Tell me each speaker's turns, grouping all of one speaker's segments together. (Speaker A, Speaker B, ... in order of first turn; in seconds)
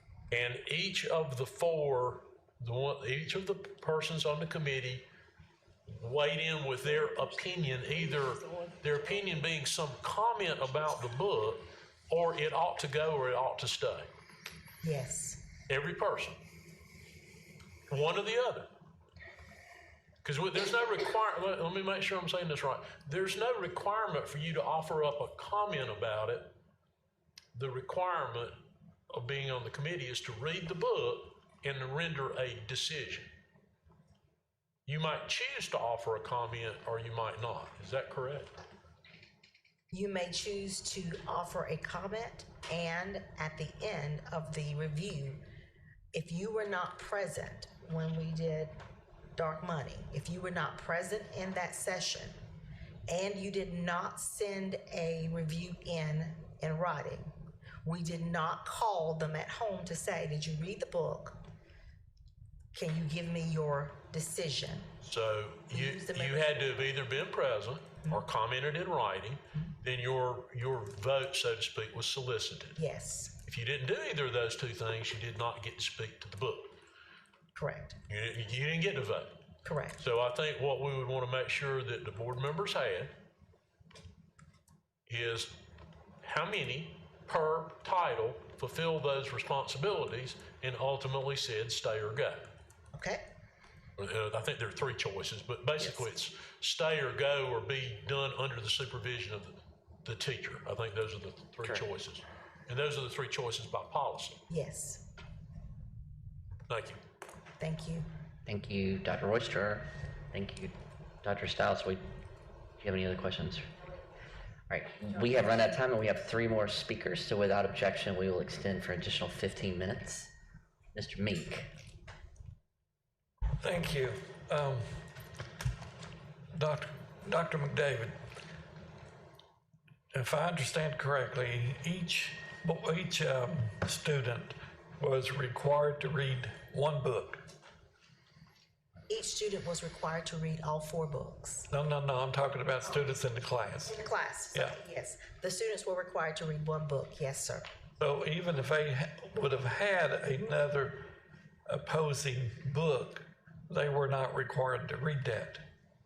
Speaker A: 0.3-5.0, 5.9-14.1, 15.7-16.4, 17.9-18.7, 20.2-26.5, 27.5-28.6, 29.1-33.3, 34.9-38.5, 65.0-72.8, 73.5-76.7, 78.1-79.3, 80.0-83.1, 85.1-85.5, 86.2-92.5, 94.0-104.4, 106.7-107.0
Speaker B: 14.8-15.4, 39.9-45.4, 46.1-48.7, 49.4-52.4, 53.1-57.3, 57.8-61.4, 62.7-64.9, 65.7-66.9, 72.8-73.3, 77.6-78.0, 79.7-80.0, 92.9-93.2, 104.5-105.0, 107.6-108.1, 139.1-141.7, 143.9-147.7
Speaker C: 108.5-112.0, 112.8-113.7, 114.7-120.3, 120.9-121.7
Speaker D: 123.6-124.9, 126.5-128.2, 130.1-137.4, 141.7-144.0, 148.0-151.0, 151.7-155.6